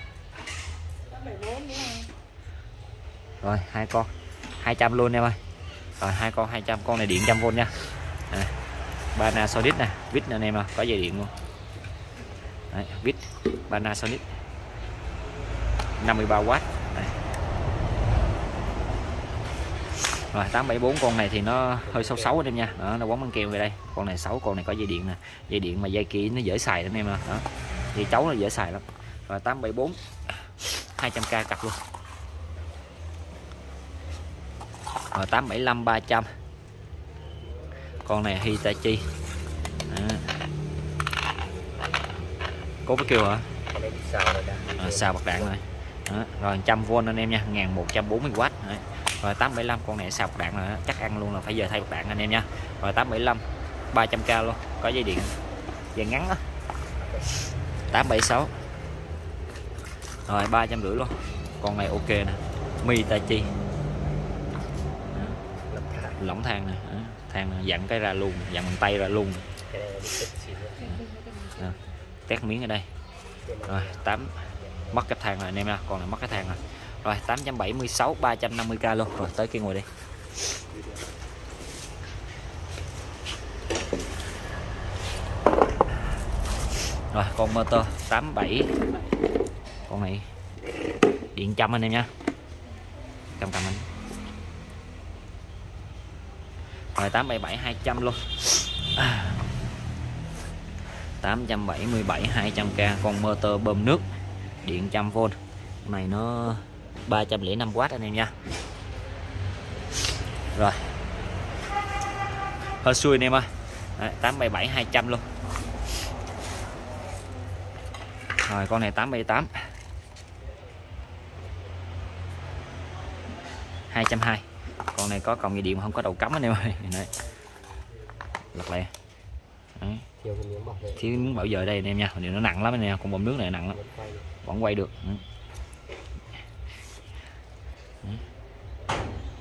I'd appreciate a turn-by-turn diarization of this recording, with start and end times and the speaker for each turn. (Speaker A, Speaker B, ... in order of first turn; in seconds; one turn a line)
Speaker A: 1.1-2.1
Speaker B: 3.4-5.4
Speaker B: 6.0-7.8
Speaker B: 9.2-11.3
Speaker B: 12.7-14.2
Speaker B: 16.0-17.2
Speaker B: 20.3-30.0
Speaker C: 21.8-22.4
Speaker B: 30.6-31.8
Speaker B: 35.1-36.3
Speaker B: 38.0-39.1
Speaker B: 39.9-40.4
Speaker B: 42.9-43.5
Speaker C: 43.7-45.6
Speaker B: 44.8-55.4
Speaker B: 56.0-56.4
Speaker C: 57.0-57.4
Speaker B: 57.9-58.5
Speaker B: 60.3-63.5
Speaker C: 65.7-66.2
Speaker B: 66.2-69.5
Speaker C: 69.7-70.8
Speaker A: 70.8-72.0
Speaker B: 72.3-72.9
Speaker C: 73.4-75.0
Speaker B: 73.7-74.4
Speaker B: 74.9-79.9
Speaker B: 87.1-88.8
Speaker B: 89.9-90.3
Speaker B: 91.3-92.1
Speaker B: 93.4-93.9
Speaker B: 97.0-99.4
Speaker B: 101.2-104.0
Speaker B: 104.6-108.3
Speaker B: 110.5-110.9
Speaker B: 112.8-115.2
Speaker B: 118.5-119.7
Speaker B: 123.9-127.1
Speaker B: 128.5-128.9
Speaker B: 129.8-130.1
Speaker C: 130.2-131.4
Speaker B: 131.0-133.8
Speaker C: 133.7-134.3
Speaker B: 134.4-135.2